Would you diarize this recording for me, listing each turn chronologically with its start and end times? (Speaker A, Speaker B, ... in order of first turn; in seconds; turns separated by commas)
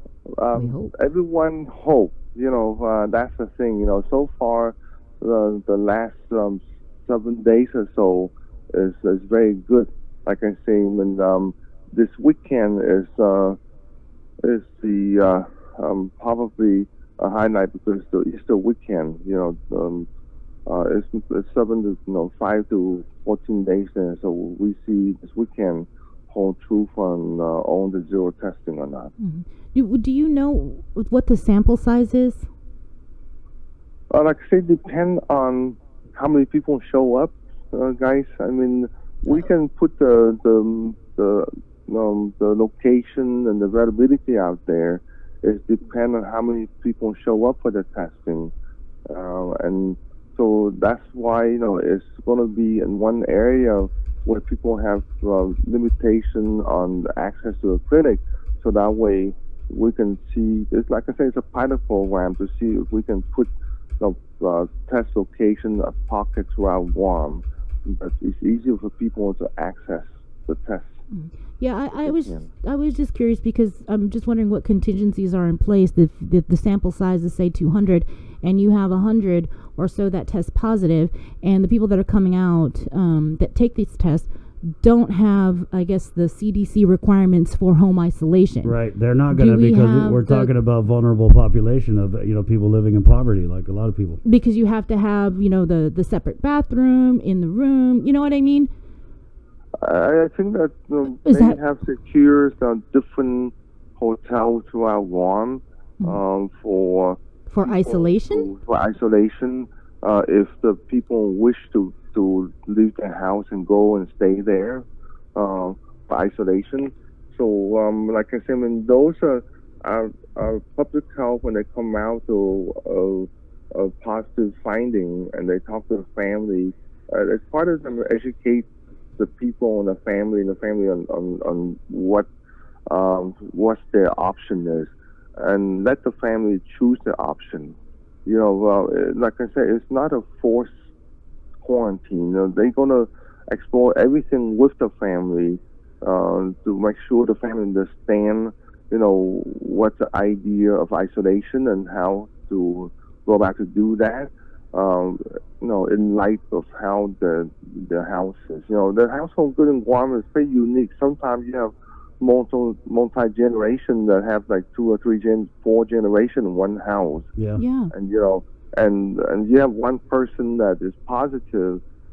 Speaker A: 0.3-13.6, Speaker B: 0.6-0.9, Speaker A: 14.4-20.1, Speaker A: 20.7-29.1, Speaker B: 29.2-32.5, Speaker A: 34.1-48.5, Speaker A: 49.1-71.0, Speaker B: 71.1-88.8, Speaker A: 72.0-72.5, Speaker C: 88.6-94.2, Speaker B: 89.3-90.5, Speaker B: 94.2-98.7, Speaker A: 99.8-132.3, Speaker B: 101.2-101.6, Speaker B: 107.5-108.5, Speaker A: 132.9-140.8, Speaker A: 141.6-167.3, Speaker C: 167.4-167.6, Speaker B: 167.6-167.9, Speaker A: 167.9-171.8